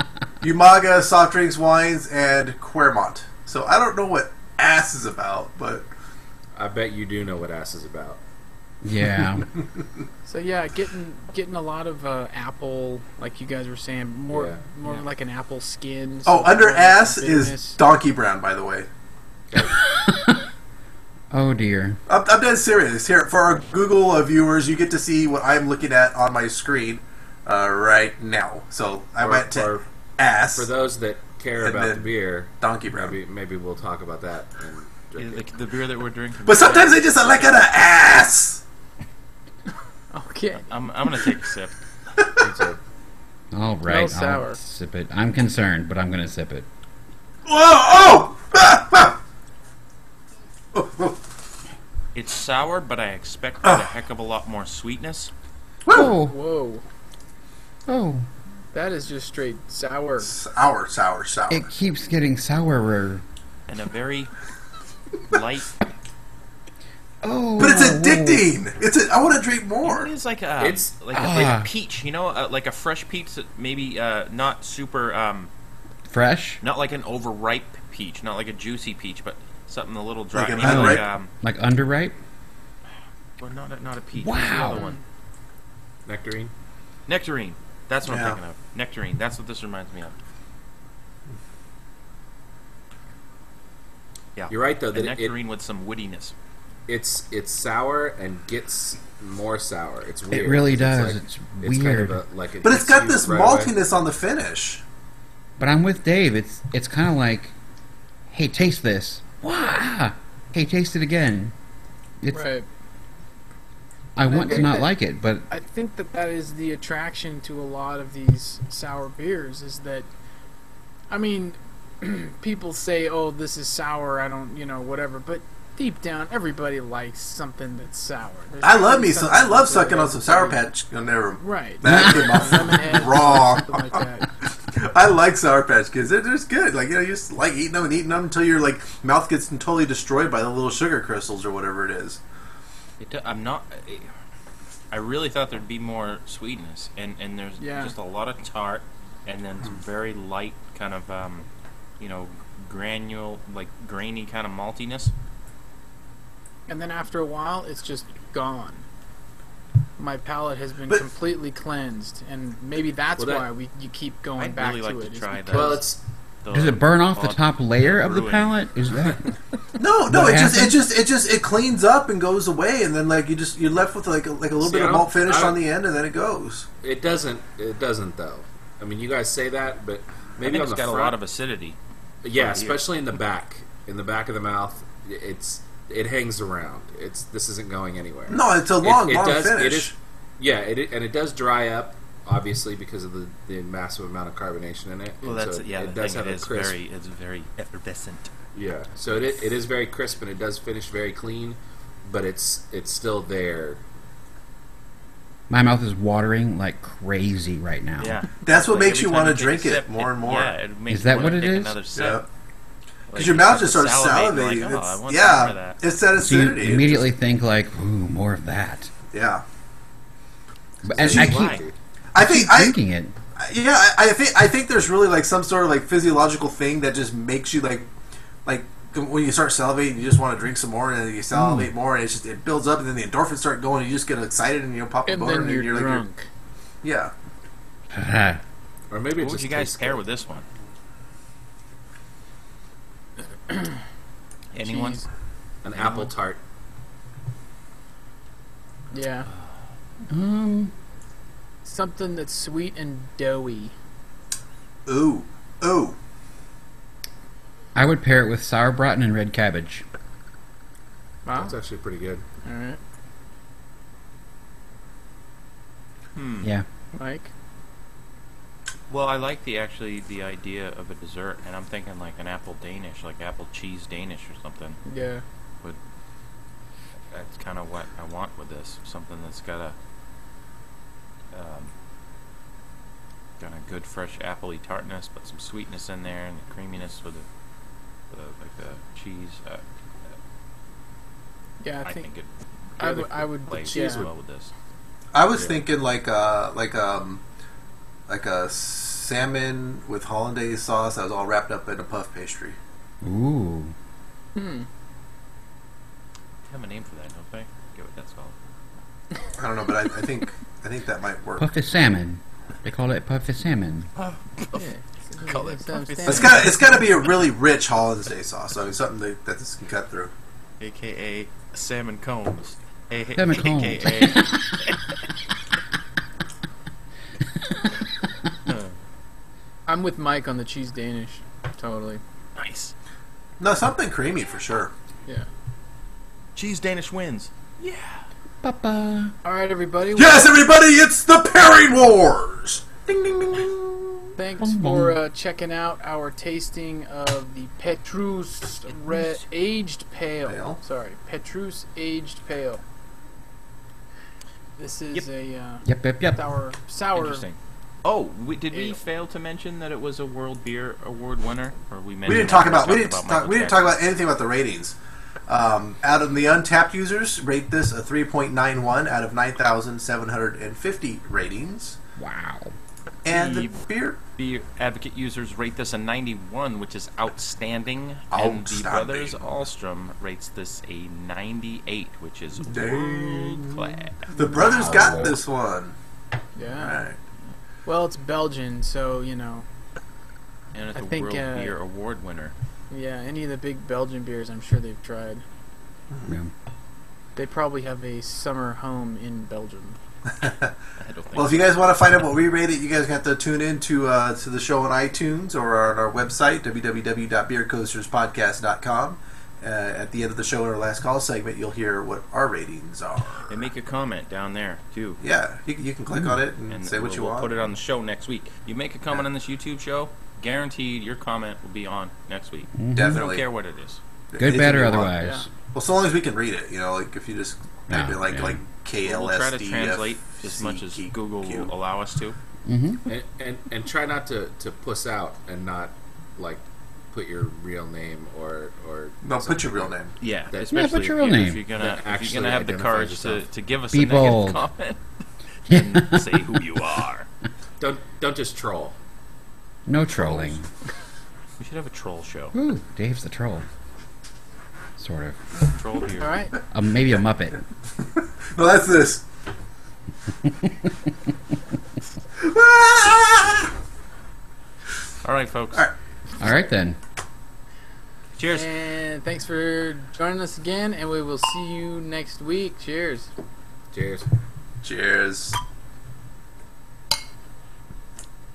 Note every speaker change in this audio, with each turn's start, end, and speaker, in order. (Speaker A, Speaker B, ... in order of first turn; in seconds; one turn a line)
Speaker A: 0.4-5.9
Speaker B: 6.5-8.2
Speaker C: 8.8-9.5
Speaker D: 10.2-17.8
Speaker B: 14.3-14.6
Speaker A: 16.2-18.9
Speaker B: 19.5-19.8
Speaker C: 19.9-20.4
Speaker C: 21.3-22.0
Speaker A: 22.1-30.7
Speaker B: 29.1-29.9
Speaker B: 30.5-35.5
Speaker A: 31.6-33.2
Speaker E: 35.1-37.6
Speaker A: 36.4-38.6
Speaker D: 40.1-40.6
Speaker E: 40.5-41.8
Speaker A: 42.2-42.5
Speaker B: 42.4-42.8
Speaker C: 43.5-46.6
Speaker D: 43.8-44.6
Speaker A: 47.5-49.2
Speaker A: 50.7-51.2
Speaker E: 52.1-55.3
Speaker A: 55.8-56.1
Speaker C: 55.9-56.3
Speaker D: 56.0-56.8
Speaker C: 57.9-58.3
Speaker D: 58.7-60.3
Speaker A: 60.2-61.7
Speaker C: 61.5-63.2
Speaker E: 63.7-64.3
Speaker E: 65.3-65.7
Speaker C: 67.2-68.5
Speaker A: 67.6-70.1
Speaker E: 69.8-75.5
Speaker B: 70.6-71.0
Speaker C: 71.1-71.7
Speaker C: 76.1-76.6
Speaker E: 76.6-81.3
Speaker A: 80.3-81.1
Speaker C: 80.6-82.1
Speaker E: 83.4-85.0
Speaker C: 84.2-84.8
Speaker D: 84.7-85.0
Speaker B: 86.0-86.5
Speaker E: 87.1-90.1
Speaker A: 88.0-88.4
Speaker E: 94.3-96.3
Speaker B: 94.5-95.4
Speaker B: 96.9-103.8
Speaker C: 100.3-102.2
Speaker A: 102.6-104.8
Speaker C: 105.6-107.5
Speaker C: 108.3-111.5
Speaker C: 112.2-112.5
Speaker D: 112.3-112.7
Speaker C: 114.1-115.5
Speaker D: 114.3-114.9
Speaker D: 115.5-120.1
Speaker D: 121.1-130.7
Speaker A: 128.6-142.2
Speaker D: 131.4-134.3
Speaker C: 131.8-132.9
Speaker E: 143.0-144.1
Speaker E: 144.9-151.5
Speaker D: 147.6-147.9
Speaker E: 152.0-155.1
Speaker D: 156.7-158.8
Speaker D: 160.0-165.8
Speaker B: 163.2-163.5
Speaker E: 164.4-165.8
Speaker B: 165.5-166.0
Speaker E: 166.4-168.7
Speaker C: 166.5-169.2
Speaker A: 169.8-176.7
Speaker C: 170.0-170.8
Speaker B: 174.6-175.6
Speaker B: 176.8-181.2
Speaker E: 180.4-181.8
Speaker B: 182.2-196.8
Speaker E: 182.3-182.8
Speaker A: 188.3-189.9
Speaker E: 195.2-198.3
Speaker B: 198.5-203.8
Speaker E: 199.1-199.4
Speaker C: 205.5-208.2
Speaker E: 208.0-212.2
Speaker A: 208.4-210.6
Speaker C: 210.9-211.8
Speaker A: 211.9-212.2
Speaker E: 213.1-215.8
Speaker A: 213.1-217.1
Speaker C: 216.2-218.9
Speaker A: 219.1-219.4
Speaker C: 220.8-221.6
Speaker B: 220.9-221.7
Speaker A: 221.0-221.4
Speaker E: 221.1-221.6
Speaker A: 222.1-222.8
Speaker C: 222.2-223.1
Speaker A: 223.3-227.9
Speaker A: 228.4-236.0
Speaker C: 231.3-231.7
Speaker D: 235.0-236.3
Speaker A: 236.8-237.1
Speaker C: 237.9-238.4
Speaker B: 238.9-240.0
Speaker E: 239.2-240.5
Speaker D: 243.5-243.8
Speaker E: 244.5-245.0
Speaker D: 244.6-245.1
Speaker B: 245.6-246.4
Speaker E: 245.7-246.1
Speaker D: 248.9-249.3
Speaker C: 250.1-250.7
Speaker D: 251.6-253.7
Speaker A: 254.8-256.0
Speaker C: 257.7-259.8
Speaker D: 261.2-261.6
Speaker B: 261.3-262.2
Speaker D: 262.4-262.8
Speaker E: 266.1-266.5
Speaker D: 266.9-267.3
Speaker E: 268.9-274.8
Speaker D: 274.8-275.2
Speaker E: 277.1-279.8
Speaker E: 281.3-281.7
Speaker E: 283.4-287.2
Speaker E: 288.1-289.6
Speaker D: 291.6-292.1
Speaker E: 291.8-294.5
Speaker D: 292.8-294.1
Speaker B: 293.6-294.1
Speaker A: 295.1-297.2
Speaker B: 295.3-295.6
Speaker A: 298.1-302.6
Speaker C: 303.0-303.7
Speaker D: 304.4-304.7
Speaker E: 306.5-308.3
Speaker A: 309.4-311.5
Speaker C: 311.4-313.9
Speaker E: 313.9-317.3
Speaker D: 314.5-316.5
Speaker A: 316.1-320.1
Speaker E: 320.6-324.8
Speaker C: 323.1-324.4
Speaker E: 328.5-328.8
Speaker D: 329.6-332.0
Speaker E: 332.4-332.7
Speaker A: 333.4-334.7
Speaker E: 336.3-338.0
Speaker C: 338.4-339.1
Speaker D: 339.2-340.4
Speaker A: 339.9-344.0
Speaker D: 344.1-352.6
Speaker C: 344.4-345.0
Speaker A: 350.2-350.6
Speaker D: 354.6-357.2
Speaker C: 355.6-356.2
Speaker E: 356.9-363.8
Speaker D: 358.5-358.8
Speaker A: 362.0-371.8
Speaker C: 372.0-372.5
Speaker A: 373.0-374.0
Speaker E: 373.1-384.1
Speaker A: 378.1-379.4
Speaker A: 382.4-385.8
Speaker D: 384.2-384.8
Speaker B: 384.4-385.1
Speaker C: 384.6-385.1
Speaker D: 386.4-386.8
Speaker A: 386.5-387.0
Speaker D: 387.6-389.4
Speaker E: 390.5-392.3
Speaker D: 390.7-391.6
Speaker D: 392.7-395.2
Speaker A: 395.9-396.1
Speaker C: 396.1-396.3
Speaker D: 397.1-399.8
Speaker A: 400.2-400.5
Speaker E: 400.8-401.5
Speaker A: 401.1-413.5
Speaker E: 413.2-415.0
Speaker A: 415.0-417.3
Speaker C: 415.9-416.2
Speaker E: 416.4-423.8
Speaker C: 422.5-423.0
Speaker A: 422.7-423.2
Speaker A: 424.1-424.9
Speaker C: 424.2-425.3
Speaker D: 425.0-425.2
Speaker A: 425.5-431.5
Speaker C: 427.7-428.4
Speaker E: 428.8-432.2
Speaker C: 432.4-432.8
Speaker B: 432.9-439.7
Speaker A: 439.0-440.0
Speaker E: 440.0-447.1
Speaker B: 440.3-440.6
Speaker C: 440.5-441.4
Speaker B: 441.5-443.2
Speaker C: 443.7-444.5
Speaker C: 445.5-446.1
Speaker B: 447.6-448.8
Speaker C: 449.6-450.5
Speaker B: 450.0-450.3
Speaker E: 451.4-452.3
Speaker C: 452.3-453.5
Speaker C: 454.8-455.2
Speaker E: 455.5-456.1
Speaker D: 456.0-456.3
Speaker C: 456.5-457.4
Speaker A: 457.8-459.0
Speaker A: 462.2-463.5
Speaker E: 465.0-465.7
Speaker C: 466.2-466.8
Speaker E: 468.1-468.5
Speaker D: 468.3-473.1
Speaker B: 473.7-474.1
Speaker A: 474.6-475.4